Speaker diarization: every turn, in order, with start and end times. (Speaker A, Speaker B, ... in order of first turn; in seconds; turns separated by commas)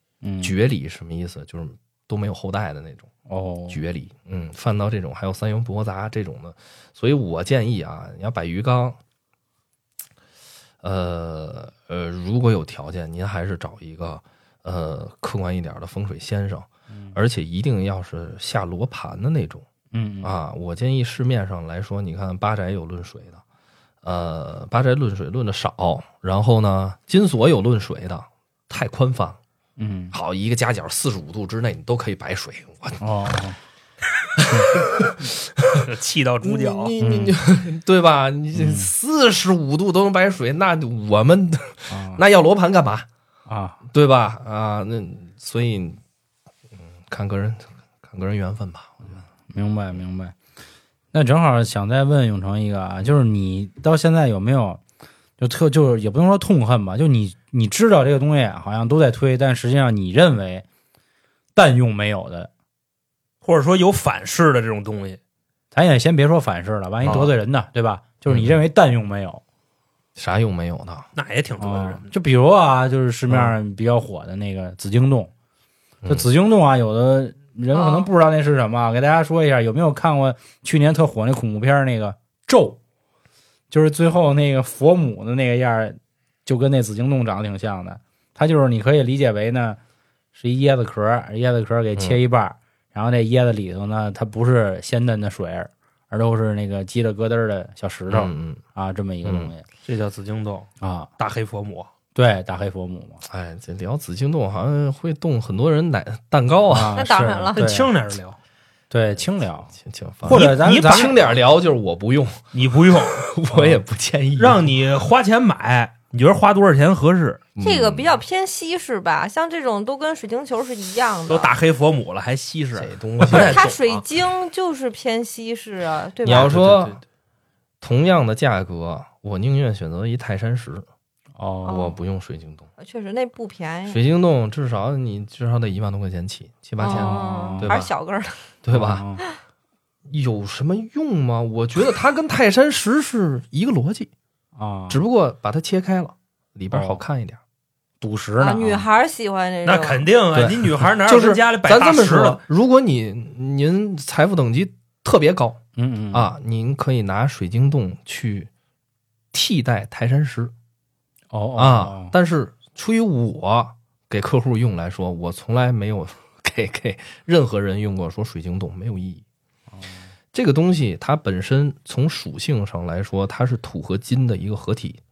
Speaker A: 0.2-0.5, Speaker B: 0.4-3.1, Speaker A: 3.3-3.8, Speaker B: 3.7-9.0, Speaker B: 10.8-19.7, Speaker A: 16.9-17.1, Speaker A: 19.9-20.3, Speaker B: 20.2-23.4, Speaker B: 24.0-29.4, Speaker A: 29.8-30.1, Speaker B: 30.1-33.0, Speaker A: 33.0-33.6, Speaker B: 34.4-35.8, Speaker C: 35.8-36.9, Speaker B: 36.4-43.1, Speaker A: 37.0-37.4, Speaker A: 38.5-38.9, Speaker A: 41.9-42.2, Speaker A: 43.5-43.8, Speaker B: 43.9-46.0, Speaker B: 47.0-49.2, Speaker A: 49.5-50.3, Speaker A: 51.1-54.8, Speaker A: 55.4-60.6, Speaker A: 61.5-62.5, Speaker C: 63.4-65.2, Speaker A: 65.7-69.4, Speaker B: 67.0-67.3, Speaker B: 68.3-68.6, Speaker B: 70.2-71.1, Speaker C: 71.2-72.0, Speaker A: 71.6-75.3, Speaker B: 73.3-73.5, Speaker B: 76.0-76.3, Speaker A: 76.1-82.8, Speaker D: 77.7-78.1, Speaker A: 83.7-89.8, Speaker A: 90.3-99.6, Speaker B: 98.1-98.6, Speaker B: 99.2-99.5, Speaker C: 99.8-101.9, Speaker A: 100.8-101.1, Speaker A: 102.1-103.2, Speaker B: 103.2-107.0, Speaker A: 106.7-107.9, Speaker D: 106.9-107.7, Speaker C: 107.5-108.4, Speaker A: 108.9-109.7, Speaker B: 109.7-112.4, Speaker A: 110.2-111.1, Speaker C: 110.3-111.2, Speaker C: 112.5-113.2, Speaker B: 113.0-114.6, Speaker A: 113.5-113.8, Speaker C: 114.4-117.5, Speaker B: 117.5-118.1, Speaker D: 117.6-121.5, Speaker C: 121.3-124.0, Speaker B: 122.8-123.7, Speaker D: 123.3-126.6, Speaker B: 126.2-127.0, Speaker B: 127.8-130.8, Speaker A: 131.3-131.9, Speaker D: 131.6-132.0, Speaker B: 131.6-132.7, Speaker D: 132.8-134.0, Speaker B: 133.9-137.9, Speaker D: 136.8-138.4, Speaker A: 136.8-137.8, Speaker B: 138.6-139.1, Speaker A: 138.7-139.2, Speaker B: 140.1-144.1, Speaker A: 144.6-145.0, Speaker B: 144.9-147.4, Speaker A: 146.7-147.0, Speaker A: 148.0-148.8, Speaker D: 148.4-150.1, Speaker C: 149.6-152.4, Speaker B: 150.3-155.6, Speaker A: 155.8-156.3, Speaker B: 156.1-158.5, Speaker B: 159.3-160.5, Speaker A: 161.3-162.1, Speaker B: 161.6-169.2, Speaker A: 169.7-170.0, Speaker B: 170.3-175.0